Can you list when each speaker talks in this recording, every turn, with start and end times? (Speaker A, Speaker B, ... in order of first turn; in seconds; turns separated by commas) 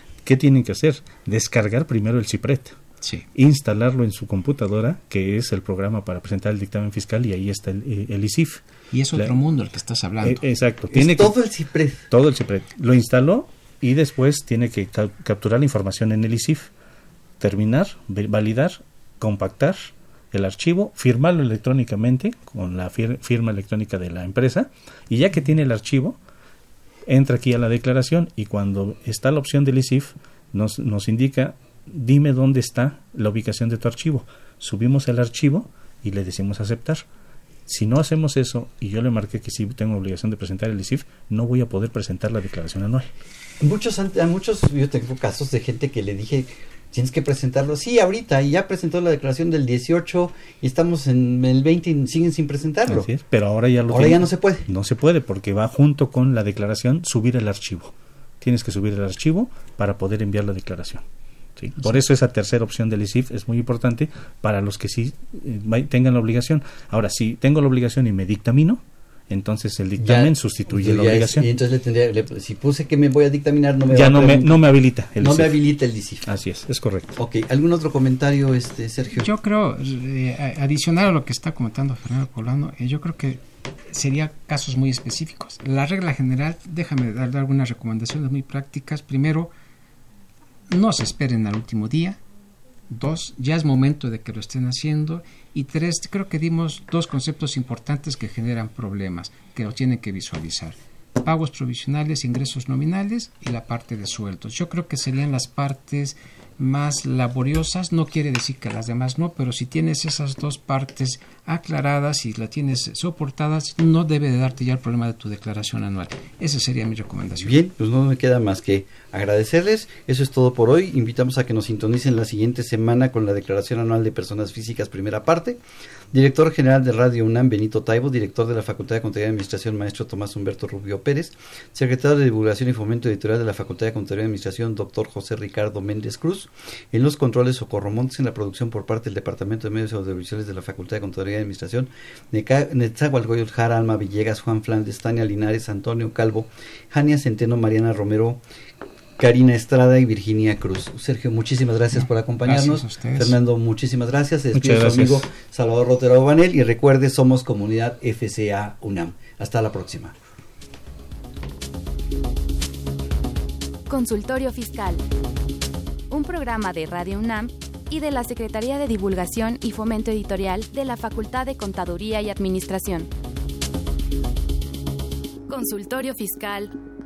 Speaker A: 0.2-2.8, Speaker A: 3.4-8.6, Speaker B: 8.9-10.4, Speaker A: 10.2-11.4, Speaker C: 10.9-12.1, Speaker A: 12.1-16.7, Speaker A: 17.4-26.2, Speaker A: 27.1-37.0, Speaker A: 37.7-43.1, Speaker C: 43.6-53.1, Speaker A: 52.9-61.0, Speaker C: 53.9-54.7, Speaker A: 61.6-71.5, Speaker C: 70.0-74.6, Speaker A: 73.9-75.6, Speaker C: 75.2-76.3, Speaker A: 76.3-77.1, Speaker C: 77.2-79.3, Speaker B: 79.2-89.5, Speaker B: 90.7-92.2, Speaker B: 92.9-117.6, Speaker C: 117.4-125.6, Speaker C: 126.1-148.4, Speaker C: 149.2-160.2, Speaker B: 152.4-153.4, Speaker A: 154.5-155.3, Speaker D: 163.9-165.0, Speaker D: 166.1-173.1, Speaker D: 175.5-176.7